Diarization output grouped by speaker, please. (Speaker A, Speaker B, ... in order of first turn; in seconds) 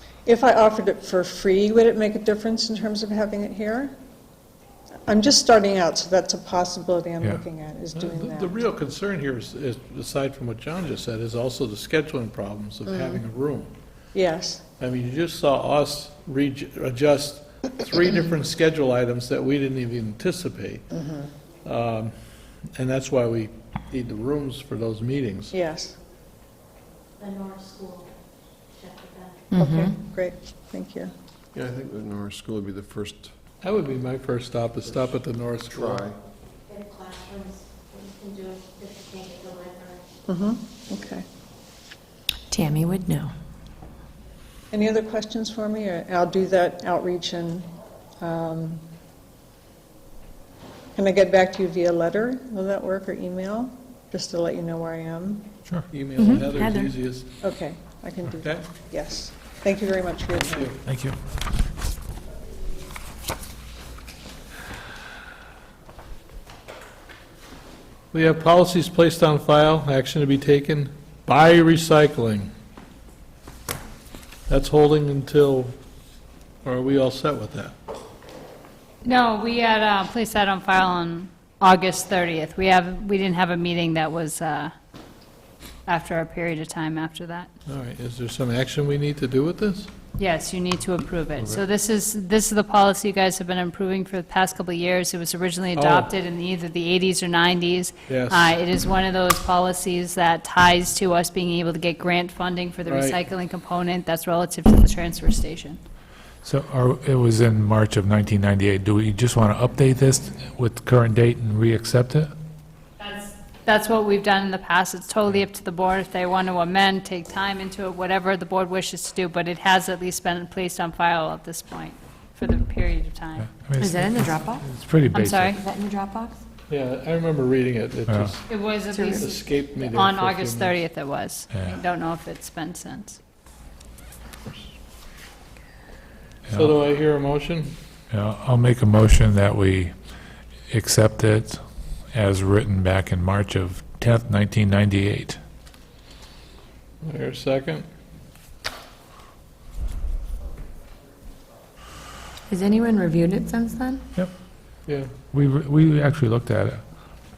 Speaker A: 0.3-3.9, 5.1-8.6, 14.1-14.6, 20.9-21.3, 25.5-26.0, 29.5-31.1, 40.3-41.2, 44.7-47.7, 48.2-48.8, 51.0-55.5, 57.4-60.7
Speaker B: 7.9-13.7, 14.8-20.9, 21.6-22.1, 22.8-25.5, 33.6-36.0, 55.9-57.3, 58.3-58.7, 60.5-60.8, 68.1-72.5, 74.5-75.8, 76.6-77.8, 87.7-89.9, 95.8-96.1, 98.1-98.5, 102.8-103.2, 126.7-128.4, 129.1-130.8, 136.5-137.7, 147.0-147.9
Speaker C: 27.2-28.1, 28.7-29.5, 36.7-40.1
Speaker D: 29.5-29.9, 42.5-43.3, 56.2-56.9, 123.8-124.6, 125.5-126.4, 128.9-129.3, 152.5-154.0
Speaker E: 31.5-33.3, 35.7-36.2
Speaker F: 60.9-61.2, 106.4-112.3, 123.5-125.6, 128.1-128.3, 131.5-131.8, 136.5-136.7, 138.1-139.9, 140.7-145.4, 155.3-156.8
Speaker G: 79.0-84.7, 85.9-87.5, 90.2-105.8, 113.0-123.5, 125.1-125.6, 128.5-129.4, 129.9-133.2